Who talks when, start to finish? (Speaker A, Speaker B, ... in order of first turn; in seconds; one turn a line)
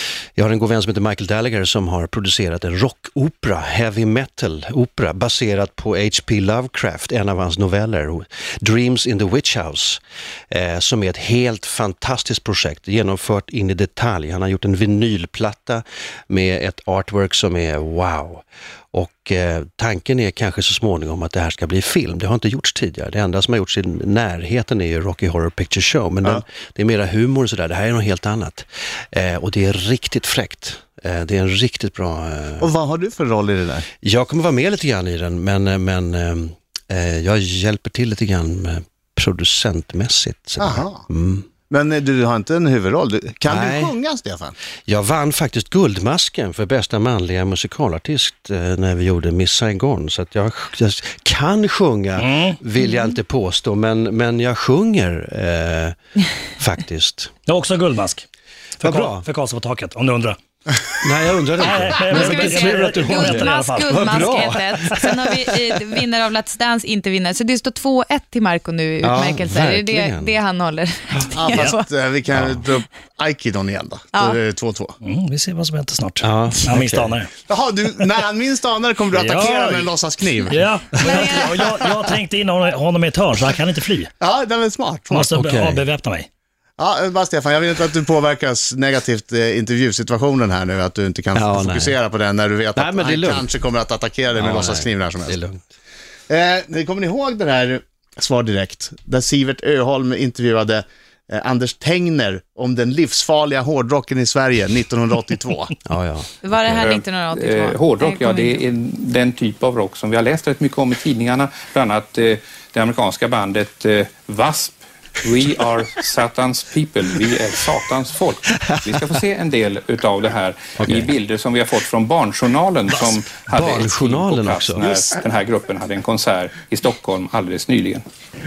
Speaker A: 0.3-10.0
Speaker A: 10.5-32.7
Speaker B: 32.6-33.9
Speaker A: 34.0-41.5
Speaker B: 40.6-41.0
Speaker B: 41.7-44.5
Speaker A: 43.5-43.9
Speaker A: 44.9-56.0
Speaker C: 52.2-52.6
Speaker A: 56.6-57.3
Speaker C: 57.5-58.2
Speaker C: 58.8-60.4
Speaker A: 58.8-59.2
Speaker A: 61.0-65.8
Speaker C: 61.6-64.2
Speaker D: 62.1-71.9
Speaker A: 69.0-70.4
Speaker B: 71.3-75.0
Speaker A: 72.3-72.6
Speaker C: 75.0-77.3
Speaker A: 76.2-77.1
Speaker B: 77.5-80.6
Speaker C: 79.1-79.9
Speaker C: 80.5-84.1
Speaker D: 81.0-81.7
Speaker B: 81.3-81.7
Speaker B: 84.2-85.4
Speaker C: 85.1-86.3
Speaker A: 85.3-85.8
Speaker B: 86.8-95.4
Speaker A: 91.3-92.0
Speaker A: 92.8-93.5
Speaker A: 94.3-95.6
Speaker B: 96.3-105.7
Speaker A: 105.9-106.9
Speaker D: 106.4-108.6
Speaker E: 106.9-128.0
Speaker A: 118.6-119.0
Speaker A: 120.8-121.1
Speaker A: 123.5-125.0